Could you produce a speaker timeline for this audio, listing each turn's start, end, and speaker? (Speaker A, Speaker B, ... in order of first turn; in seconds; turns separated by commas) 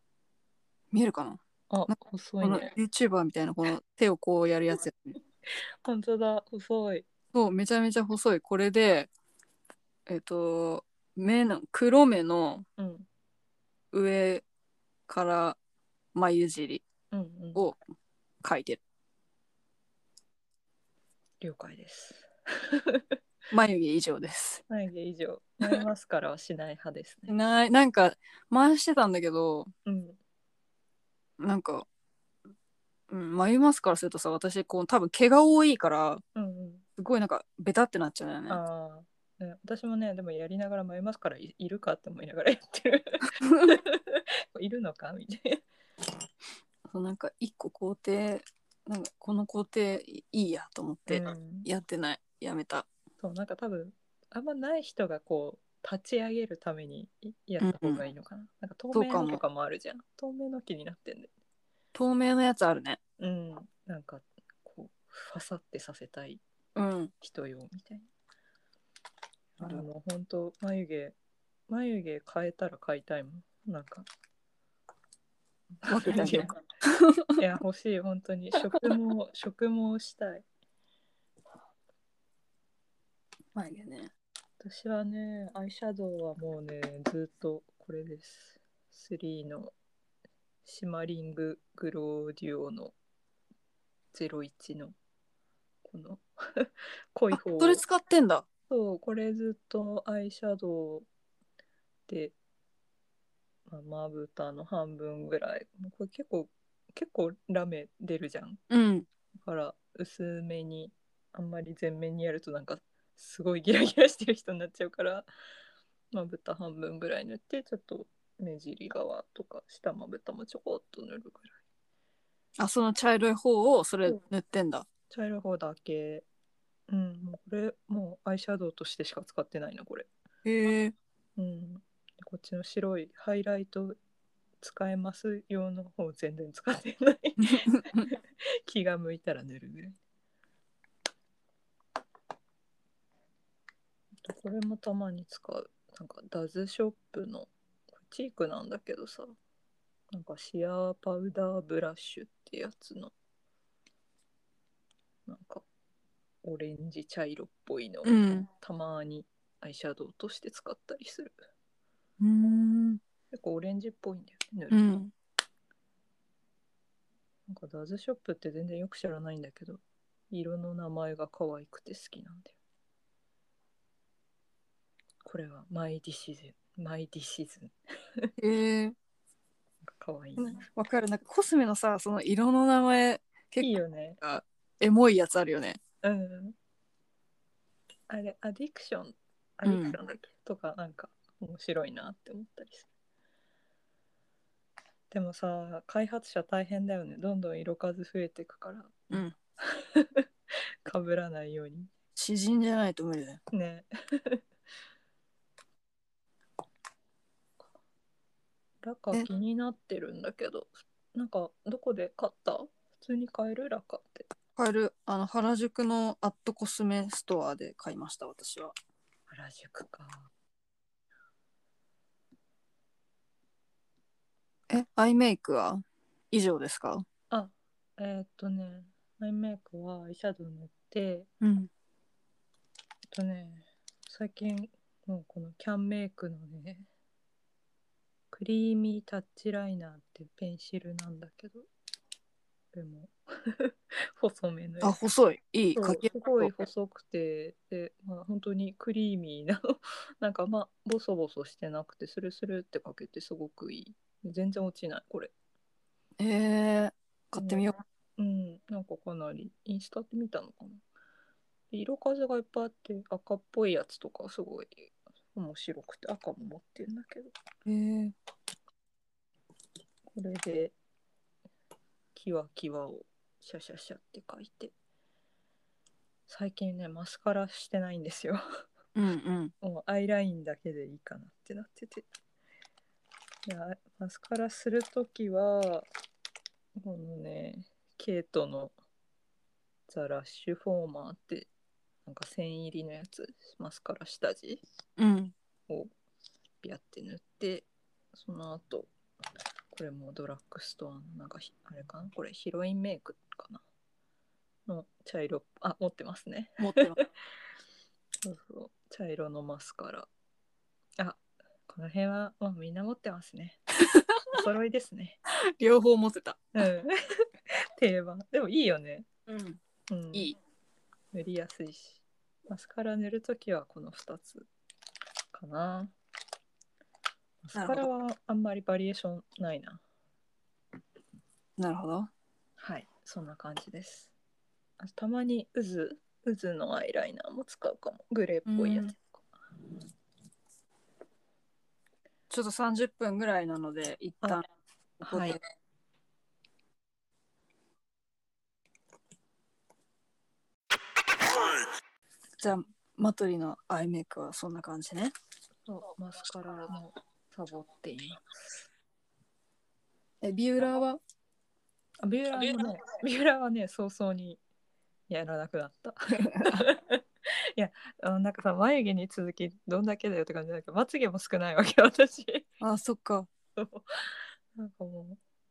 Speaker A: 0.9-1.9, Speaker B: 1.7-2.7, Speaker A: 2.4-5.2, Speaker B: 5.8-7.1, Speaker A: 7.3-9.1, Speaker A: 10.1-12.7, Speaker B: 12.8-13.1, Speaker A: 13.9-14.4, Speaker A: 15.1-15.6, Speaker A: 16.1-16.8, Speaker B: 17.1-17.6, Speaker A: 18.4-18.8, Speaker B: 21.4-23.1, Speaker A: 23.5-24.6, Speaker B: 24.7-27.3, Speaker A: 27.3-29.7, Speaker B: 29.9-30.2, Speaker A: 31.4-31.9, Speaker A: 33.1-36.2, Speaker B: 36.4-36.8, Speaker A: 37.0-38.6, Speaker B: 38.5-45.6, Speaker A: 43.4-43.7, Speaker A: 46.9-52.9, Speaker B: 51.1-51.7, Speaker B: 53.2-61.3, Speaker A: 57.6-58.0, Speaker A: 58.9-59.4, Speaker A: 61.9-63.0, Speaker B: 63.2-66.4, Speaker A: 66.8-67.1, Speaker B: 67.2-68.1, Speaker B: 69.6-71.2, Speaker B: 71.7-74.1, Speaker B: 75.8-76.6, Speaker A: 75.9-77.4, Speaker B: 77.4-80.5, Speaker A: 83.5-84.1, Speaker B: 84.6-89.7, Speaker B: 90.7-93.0, Speaker B: 94.1-95.0, Speaker B: 95.8-97.8, Speaker A: 97.3-98.5, Speaker B: 98.7-101.1, Speaker B: 102.1-102.3, Speaker B: 103.7-108.6, Speaker A: 108.7-109.1, Speaker B: 109.4-115.3, Speaker B: 116.1-121.6, Speaker A: 122.6-124.9, Speaker B: 125.1-126.2, Speaker B: 126.9-130.1, Speaker A: 130.4-130.9, Speaker B: 131.4-134.0, Speaker B: 134.6-140.0, Speaker A: 137.6-138.1, Speaker B: 144.2-149.3, Speaker B: 150.1-153.1, Speaker B: 155.3-155.7, Speaker B: 156.4-161.4, Speaker A: 158.0-158.5, Speaker A: 162.2-163.0, Speaker B: 163.3-165.0, Speaker A: 164.7-165.1, Speaker B: 167.5-172.6, Speaker B: 175.2-178.3, Speaker A: 178.4-178.9, Speaker B: 179.8-180.6, Speaker A: 180.4-185.8, Speaker B: 183.6-184.2, Speaker B: 186.0-186.6, Speaker B: 188.1-192.9, Speaker A: 189.7-190.0, Speaker B: 195.1-200.2, Speaker B: 200.8-201.9, Speaker A: 202.2-203.4, Speaker B: 203.5-204.4, Speaker B: 208.8-214.3, Speaker A: 214.6-218.7, Speaker B: 219.3-220.3, Speaker A: 224.7-227.1, Speaker B: 227.3-231.3, Speaker A: 231.4-231.7, Speaker B: 233.1-236.9, Speaker B: 238.3-241.7, Speaker B: 242.7-244.9, Speaker A: 244.8-246.5, Speaker B: 245.8-255.3, Speaker A: 256.2-257.8, Speaker B: 257.4-257.7, Speaker B: 258.2-260.8, Speaker B: 261.7-267.3, Speaker A: 267.6-268.1, Speaker B: 270.1-270.8, Speaker B: 272.1-274.7, Speaker B: 276.3-278.4, Speaker A: 278.9-279.5, Speaker B: 279.6-282.1, Speaker B: 283.5-285.9, Speaker B: 286.8-288.7, Speaker B: 289.9-291.5, Speaker B: 292.1-294.6, Speaker A: 295.0-295.3, Speaker B: 296.6-298.9, Speaker B: 299.7-303.6, Speaker B: 304.7-307.0, Speaker A: 306.6-307.0, Speaker B: 308.2-310.1, Speaker B: 311.0-313.6, Speaker A: 313.9-314.2, Speaker B: 314.3-315.2, Speaker A: 315.5-316.5, Speaker B: 316.6-316.9, Speaker B: 317.5-319.1, Speaker A: 319.3-319.6, Speaker B: 319.9-320.3, Speaker B: 321.1-324.5, Speaker B: 325.3-325.9, Speaker B: 327.4-329.8, Speaker A: 327.6-327.9, Speaker A: 331.6-332.1, Speaker B: 332.6-334.1, Speaker B: 334.8-339.2, Speaker A: 338.5-338.9, Speaker A: 342.3-344.4, Speaker B: 345.0-345.4, Speaker A: 345.0-345.4, Speaker A: 352.4-355.1, Speaker B: 355.7-358.3, Speaker A: 360.2-361.0, Speaker B: 362.0-364.4, Speaker B: 365.1-367.0, Speaker A: 366.3-366.6, Speaker B: 367.6-372.5, Speaker A: 372.6-373.3, Speaker B: 373.6-375.2